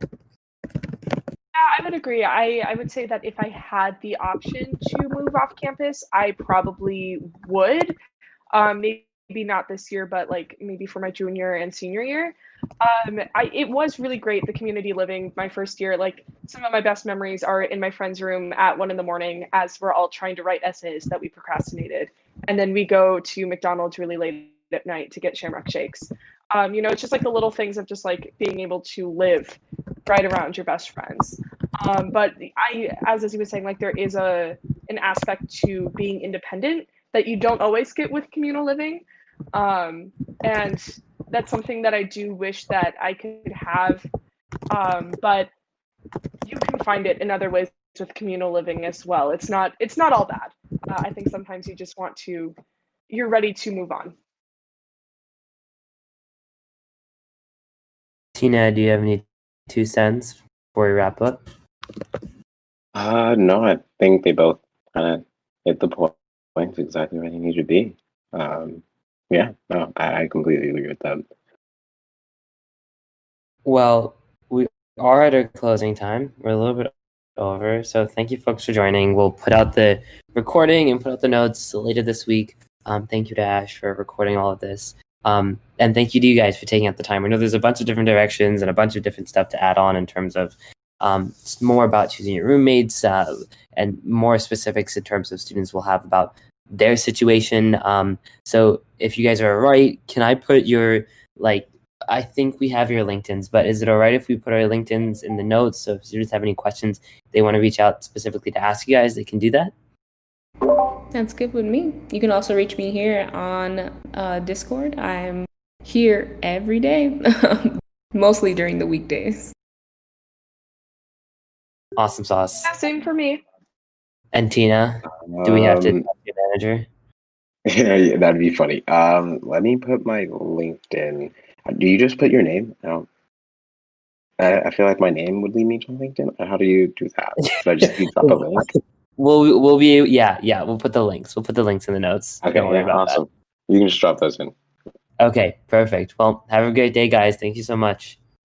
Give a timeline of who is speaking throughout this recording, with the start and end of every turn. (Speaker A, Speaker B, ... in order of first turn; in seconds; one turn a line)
Speaker A: 1.5-7.9
Speaker A: 8.5-39.0
Speaker A: 39.5-44.1
Speaker A: 44.7-45.5
Speaker A: 46.4-52.5
Speaker A: 53.1-54.1
Speaker B: 58.4-61.5
Speaker C: 62.9-71.2
Speaker B: 73.6-109.7
Speaker D: 110.7-119.5
Speaker B: 122.0-122.7
Speaker A: 122.6-123.4
Speaker B: 124.3-126.9
Speaker C: 125.1-126.0
Speaker C: 127.7-133.1
Speaker C: 134.4-138.7
Speaker B: 137.4-138.6
Speaker B: 139.2-143.2
Speaker C: 142.4-144.5
Speaker B: 145.2-148.2